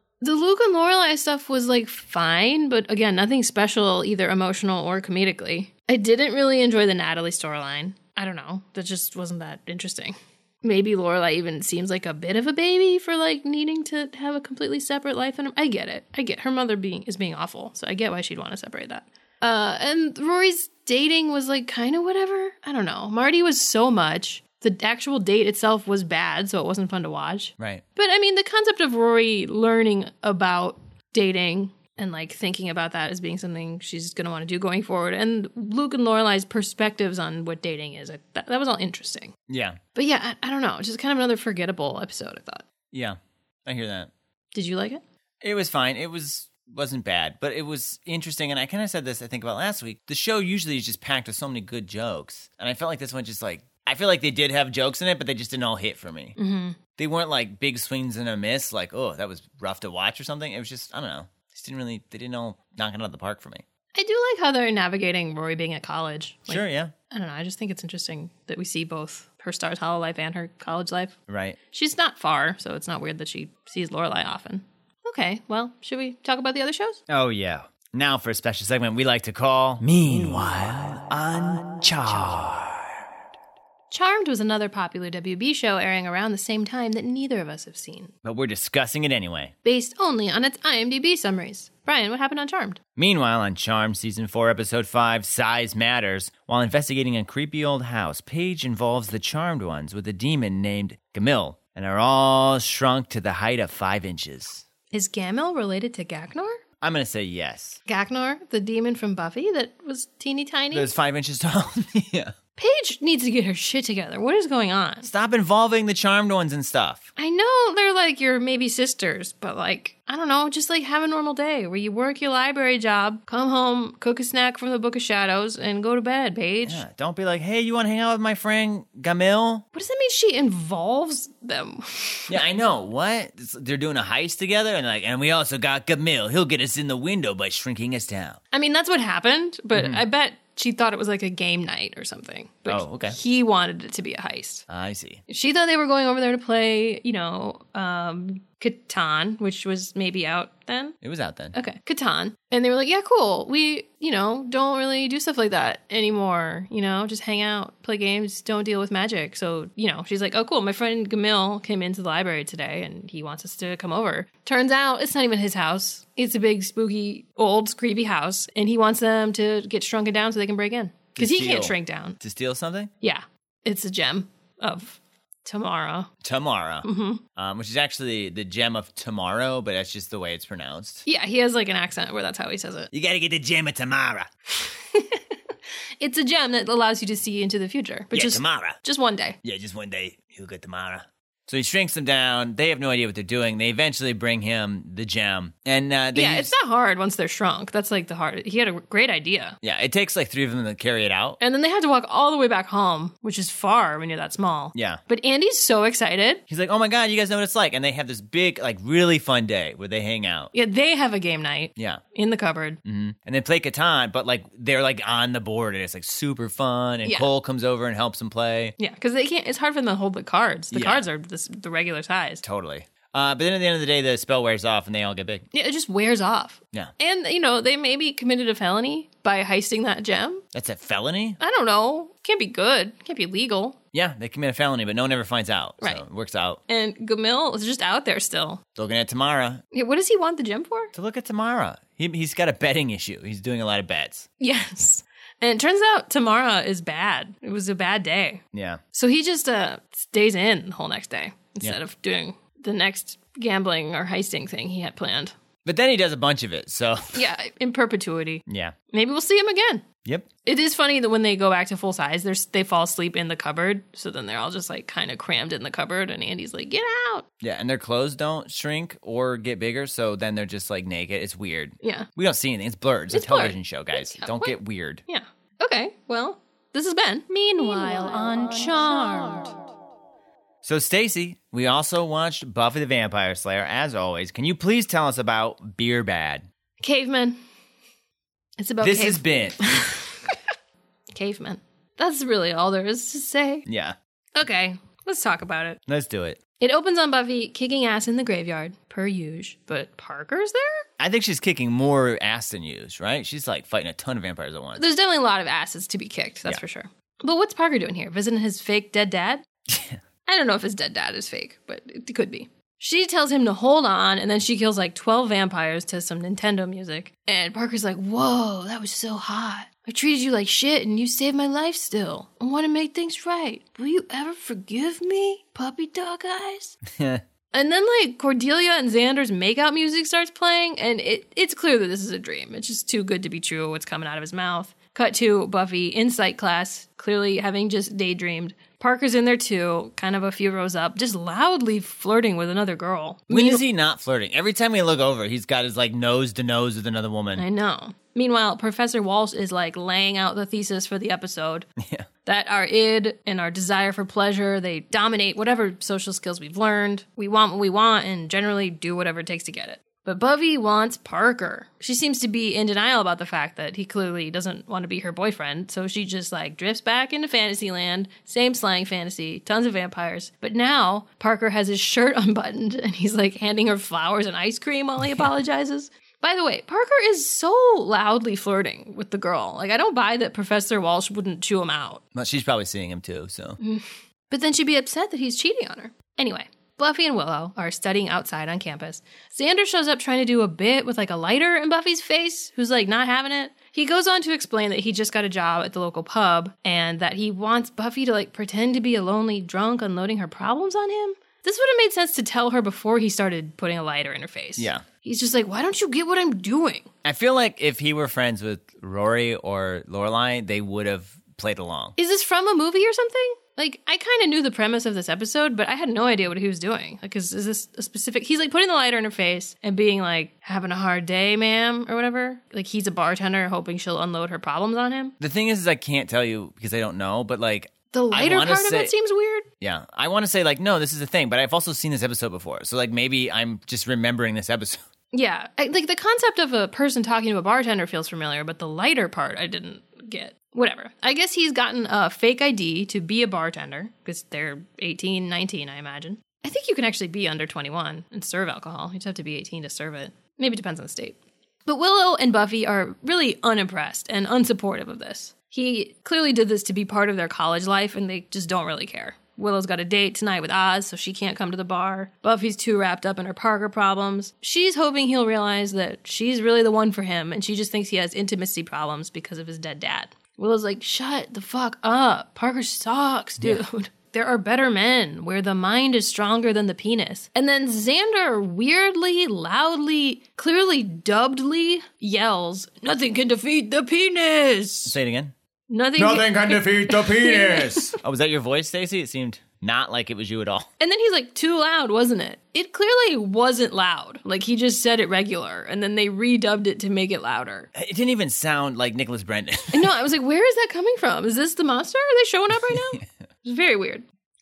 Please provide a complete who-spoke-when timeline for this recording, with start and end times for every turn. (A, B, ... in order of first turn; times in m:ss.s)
0:00.2-0:39.3 A
0:39.5-0:39.8 B
0:39.9-0:42.6 A
0:42.9-0:44.1 B
0:44.5-0:45.0 A
0:45.4-0:56.3 B
0:56.4-0:56.8 A
0:57.0-1:03.6 B
1:03.9-1:11.2 A
1:06.5-1:06.9 B
1:11.3-1:11.6 B
1:11.7-1:17.0 A
1:17.1-1:23.0 B
1:23.9-1:28.1 A
1:28.2-1:29.5 B
1:29.6-1:32.8 A
1:33.0-1:44.6 B
1:44.9-1:46.6 A
1:46.8-1:47.8 B
1:47.8-1:50.9 A
1:50.7-1:52.3 B
1:52.6-1:55.1 A
1:55.0-1:57.1 B
1:57.2-2:06.8 A
2:06.6-2:09.6 B
2:09.7-2:12.4 A
2:12.3-2:18.4 B
2:18.5-2:24.6 A
2:19.7-2:20.0 B
2:22.7-2:23.2 B
2:24.7-2:25.2 B
2:25.3-2:31.0 A
2:31.0-2:31.5 B
2:31.5-2:52.2 A
2:51.2-2:52.9 B
2:53.0-2:56.1 A
2:56.2-3:01.0 B
2:56.8-2:57.2 A
3:01.0-3:02.9 A
3:02.9-3:04.3 B
3:04.6-3:05.2 A
3:06.0-3:09.4 A
3:08.1-3:08.8 B
3:09.4-3:16.5 B
3:16.1-3:19.6 A
3:19.6-3:21.4 B
3:21.4-3:26.4 A
3:24.7-3:25.0 B
3:26.5-3:30.5 B
3:30.5-3:32.8 A
3:31.8-3:32.0 B
3:32.8-3:38.7 B
3:38.8-3:42.4 A
3:40.7-3:41.0 B
3:42.4-3:45.4 B
3:45.5-3:50.4 A
3:50.5-3:51.4 B
3:51.4-3:53.8 A
3:53.9-3:56.6 B
3:56.7-3:58.6 A
3:58.7-3:59.6 B
3:59.7-4:00.9 A
4:00.9-4:04.3 B
4:04.4-4:15.3 A
4:08.5-4:08.8 B
4:15.6-4:17.2 B
4:17.1-4:19.8 A
4:18.5-4:18.7 B
4:20.4-4:27.2 A
4:27.4-4:35.0 B
4:31.8-4:32.1 A
4:33.1-4:34.5 A
4:35.1-4:39.6 A
4:40.6-4:46.4 B
4:46.8-4:47.4 A
4:48.6-4:50.4 A
4:48.8-4:49.9 B
4:51.1-4:53.6 A
4:53.6-4:54.0 B
4:54.4-4:55.8 A
4:55.9-4:56.4 B
4:56.6-5:00.8 A
5:01.0-5:04.8 B
5:04.8-5:09.4 A
5:09.7-5:10.0 B
5:10.2-5:26.8 A
5:26.9-5:27.2 B
5:27.5-5:43.6 A
5:43.3-5:47.4 B
5:47.4-5:51.7 A
5:51.8-5:52.1 B
5:52.2-6:22.0 A
6:22.1-6:23.6 B
6:23.6-6:46.9 A
6:44.6-6:44.8 B
6:47.0-6:51.9 B
6:52.0-7:05.1 A
7:05.2-7:08.9 B
7:07.9-7:09.4 A
7:09.6-7:14.8 B
7:15.1-8:05.0 A
8:04.8-8:05.3 B
8:05.7-8:08.0 A
8:06.0-8:10.7 B
8:10.8-8:17.7 A
8:17.7-8:19.9 B
8:19.7-8:24.0 A
8:22.5-8:23.0 B